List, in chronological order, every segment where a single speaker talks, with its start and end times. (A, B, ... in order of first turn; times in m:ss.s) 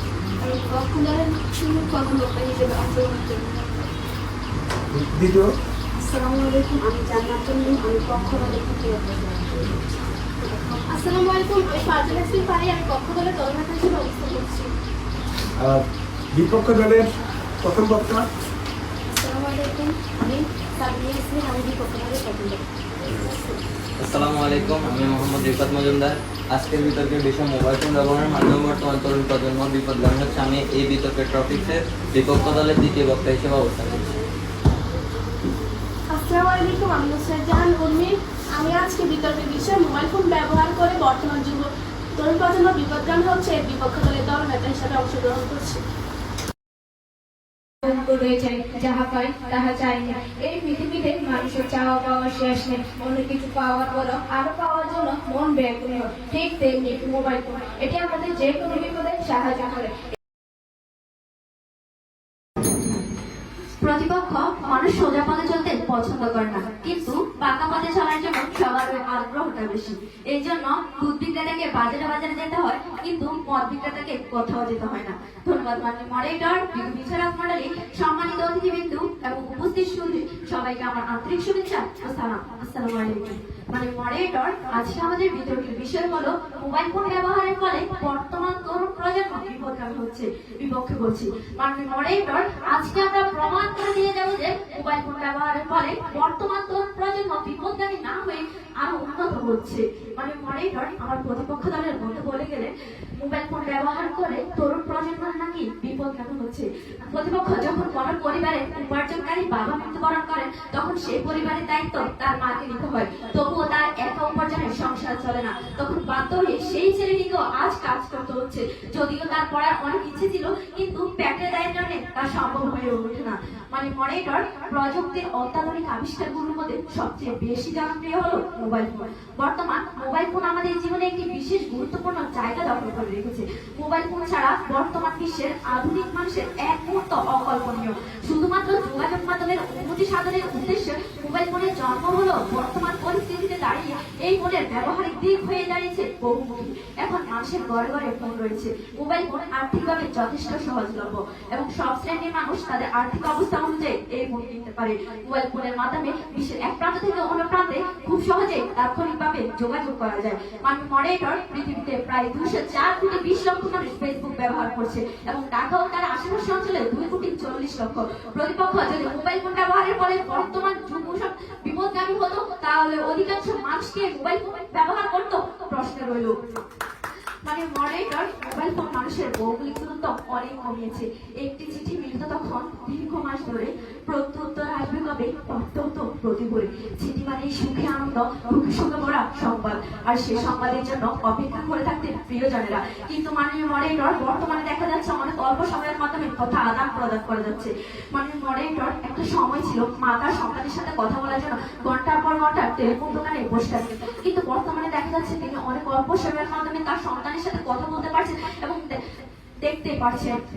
0:00.4-0:03.6 A
0:04.9-0:05.5 B
0:06.0-0:06.8 A
0:06.8-0:09.4 C
0:10.9-0:14.7 A
0:15.6-0:17.1 B
0:17.6-0:18.3 B
0:19.1-0:22.6 C
0:19.6-0:19.9 A
0:24.0-0:34.1 D
0:36.1-0:45.8 A
0:47.8-0:59.9 E
1:03.8-2:56.3 F
2:57.4-3:29.0 F
3:29.6-3:30.4 F